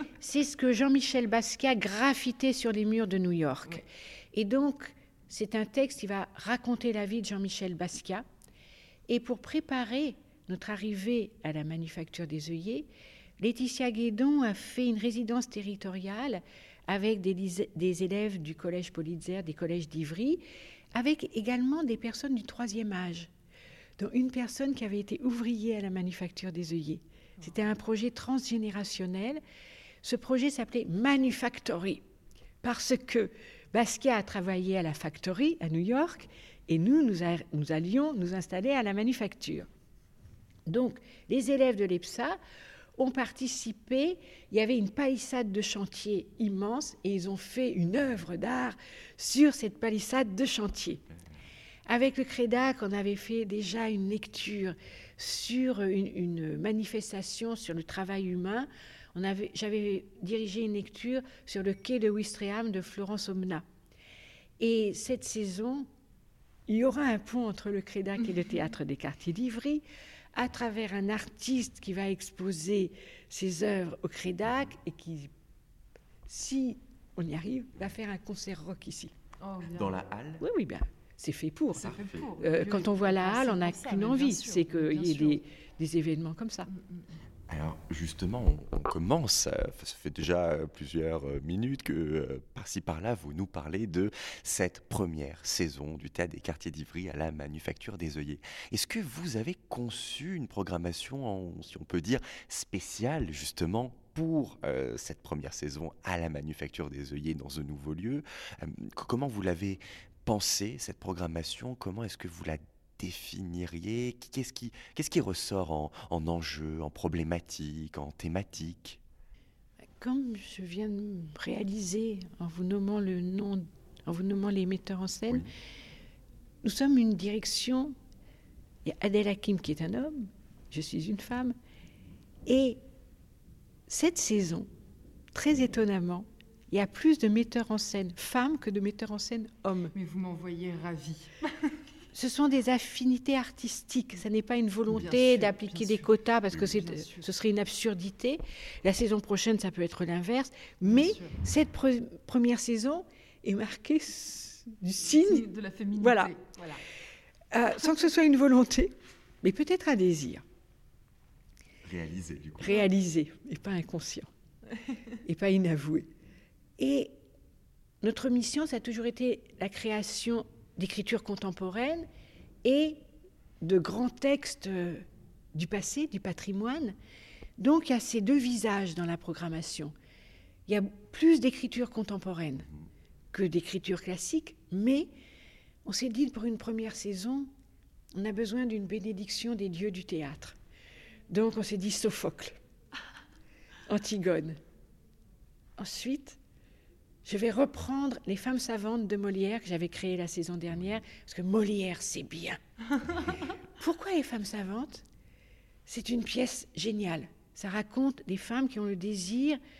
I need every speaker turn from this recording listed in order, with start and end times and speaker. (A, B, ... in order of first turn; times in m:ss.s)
0:00.2-0:08.3 A
0:09.1-0:20.4 A
0:20.9-0:23.3 A
0:24.0-0:29.4 A
0:30.0-0:32.0 A
0:32.6-0:39.7 A
0:40.7-0:42.4 A
0:43.0-0:51.0 A
0:51.9-1:03.6 A
1:04.6-1:05.9 A
1:06.7-1:15.3 A
1:16.3-1:19.1 A
1:19.4-1:20.0 B
1:19.7-1:20.4 C
1:20.4-1:26.7 A
1:21.7-1:25.4 B
1:21.8-1:22.3 C
1:26.7-1:27.0 B
1:27.5-1:59.0 C
2:00.0-2:05.5 A
2:06.6-2:08.0 A
2:08.8-2:11.6 A
2:12.5-2:12.8 A
2:13.9-2:14.7 A
2:15.3-2:19.9 A
2:19.9-2:21.4 B
2:22.1-2:36.4 A
2:24.9-2:27.3 B
2:30.9-2:31.4 B
2:35.1-2:36.8 B
2:37.5-2:40.4 A
2:41.8-2:42.9 C
2:42.6-2:44.3 A
2:45.2-2:46.1 A
2:46.8-2:47.2 A
2:48.0-2:52.1 A
2:52.6-2:53.0 A
2:53.6-2:57.0 A
2:57.6-2:59.9 A
3:00.7-3:02.7 A
3:03.3-3:05.1 A
3:05.8-3:07.5 A
3:08.2-3:10.6 A
3:11.3-3:12.6 A
3:13.9-3:14.6 A
3:15.8-3:16.4 A
3:17.2-3:22.6 A
3:23.8-3:25.0 A
3:25.9-3:29.6 A